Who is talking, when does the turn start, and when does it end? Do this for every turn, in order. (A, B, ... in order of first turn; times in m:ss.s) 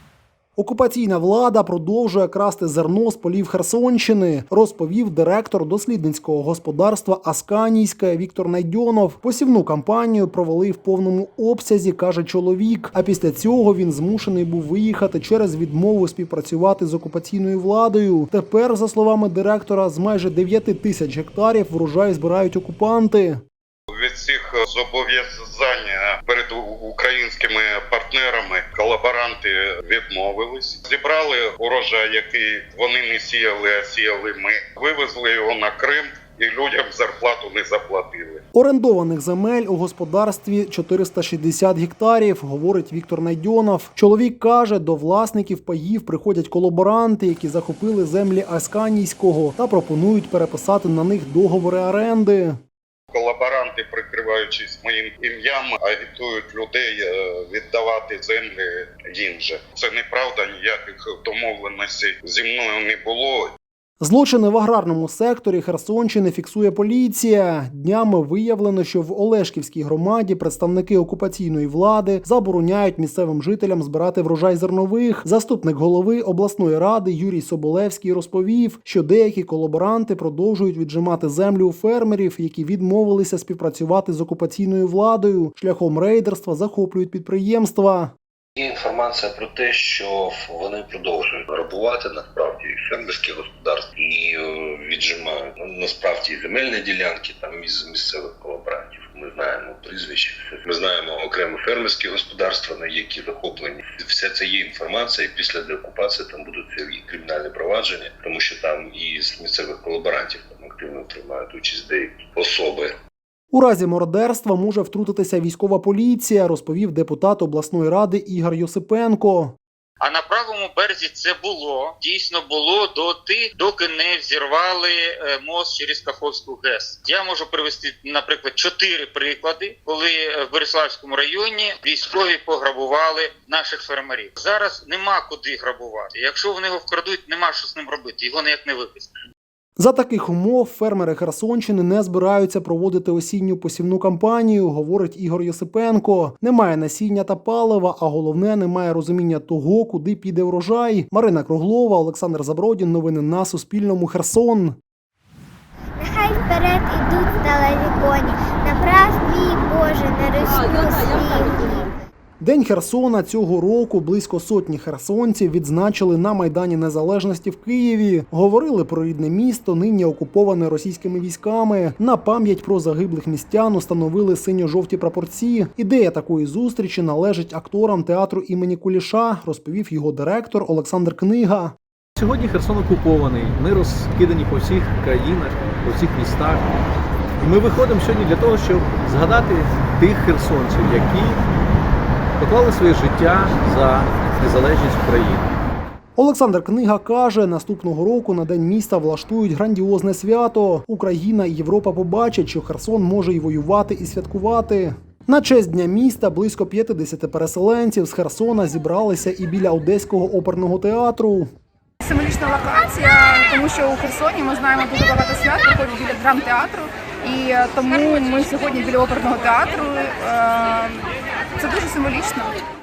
0:00.6-0:23.4 A
0:23.9-0:38.4 B
0:38.5-0:52.6 A
0:53.1-1:03.5 B
1:04.0-1:28.1 A
1:28.6-1:53.0 C
1:53.5-1:59.6 A
2:00.0-2:19.1 D
2:19.8-2:34.8 A
2:36.0-2:41.9 E
2:42.4-3:01.8 A
3:02.2-3:06.7 F
3:07.4-3:11.4 F
3:12.4-3:15.5 F
3:16.2-3:31.5 A
3:32.0-3:41.1 G
3:41.6-3:42.6 G